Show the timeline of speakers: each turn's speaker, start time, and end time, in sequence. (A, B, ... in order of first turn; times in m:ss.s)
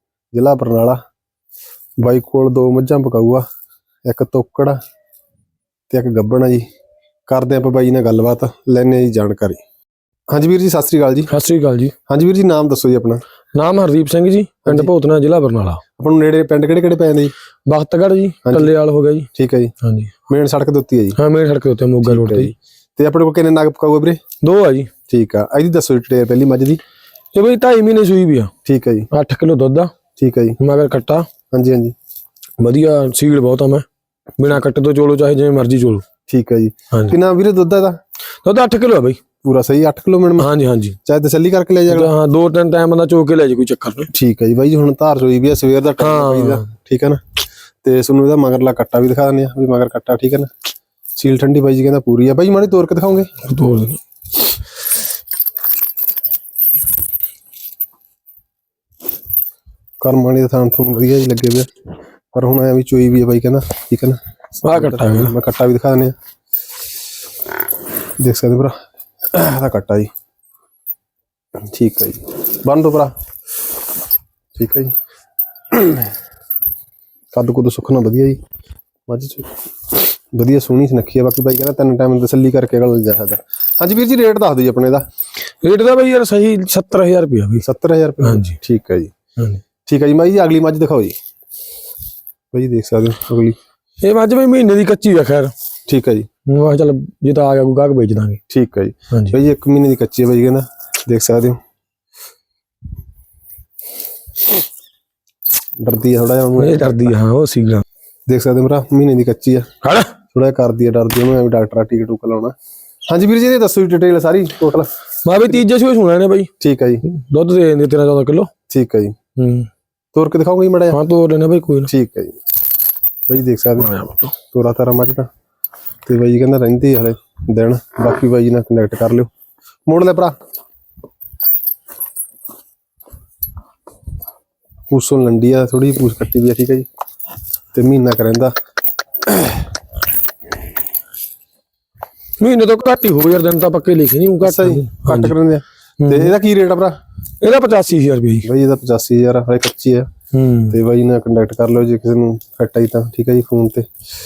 0:00.3-0:01.0 A
0:02.0-0:03.4 A
0:04.1-0:04.8 A
0:05.9-0:06.7 A
0:07.3-0:09.6 A
0:10.3-0:11.3 A
0:11.3-0:11.9 B
0:12.1-0:13.2 A
0:13.5-0:15.8 B
0:14.6-0:14.9 A
0:16.0-0:17.3 A
0:17.7-0:19.3 B
0:18.4-0:18.7 A
0:19.3-0:19.7 A
0:19.8-0:20.1 B
0:20.3-0:21.2 A
0:21.2-0:22.5 B
0:22.0-0:24.2 A
0:24.4-0:24.9 B
0:25.1-0:26.8 A
0:27.3-0:28.5 B
0:28.6-0:29.1 A
0:29.1-0:29.9 B
0:30.2-0:30.6 A
0:30.6-0:31.3 B
0:31.5-0:31.9 A
0:32.6-0:33.8 B
0:34.4-0:36.0 B
0:36.3-0:38.0 A
0:38.4-0:39.2 B
0:39.4-0:40.5 A
0:40.4-0:41.0 B
0:41.0-0:42.1 A
0:41.9-0:44.1 B
0:44.1-0:47.2 A
0:46.0-0:46.7 B
0:47.8-0:50.5 A
0:51.2-0:53.4 A
0:53.4-0:54.0 B
1:00.0-1:01.7 A
1:02.3-1:06.1 A
1:04.6-1:05.3 B
1:08.2-1:08.8 A
1:09.3-1:10.1 A
1:11.7-1:13.1 A
1:14.6-1:14.9 A
1:15.7-1:16.1 A
1:17.3-1:18.4 A
1:19.1-1:25.0 A
1:25.6-1:27.6 B
1:27.6-1:29.1 A
1:28.2-1:28.6 B
1:29.8-1:31.2 A
1:32.5-1:33.6 A
1:34.0-1:35.5 B
1:35.9-1:36.3 A
1:36.4-1:38.4 B
1:38.5-1:41.6 A
1:39.1-1:39.4 B
1:45.8-1:47.1 A
1:46.6-1:47.8 B
1:48.3-1:49.7 A
1:49.8-1:50.1 B
1:50.3-1:52.5 A
1:53.1-1:54.9 A
1:55.2-1:56.5 B
1:56.6-1:57.0 A
1:57.0-1:58.5 B
1:58.7-1:59.2 A
1:59.4-1:59.7 B
2:00.1-2:01.0 A
2:00.9-2:01.9 B
2:01.9-2:02.4 A
2:03.3-2:05.3 A
2:03.8-2:04.3 B
2:06.0-2:09.3 A
2:09.9-2:10.3 A
2:14.9-2:16.9 A
2:17.7-2:18.5 A
2:22.4-2:25.3 B
2:24.4-2:26.9 A
2:26.0-2:26.3 B
2:27.4-2:28.5 B
2:28.4-2:30.1 A
2:30.3-2:30.8 B
2:30.7-2:33.9 A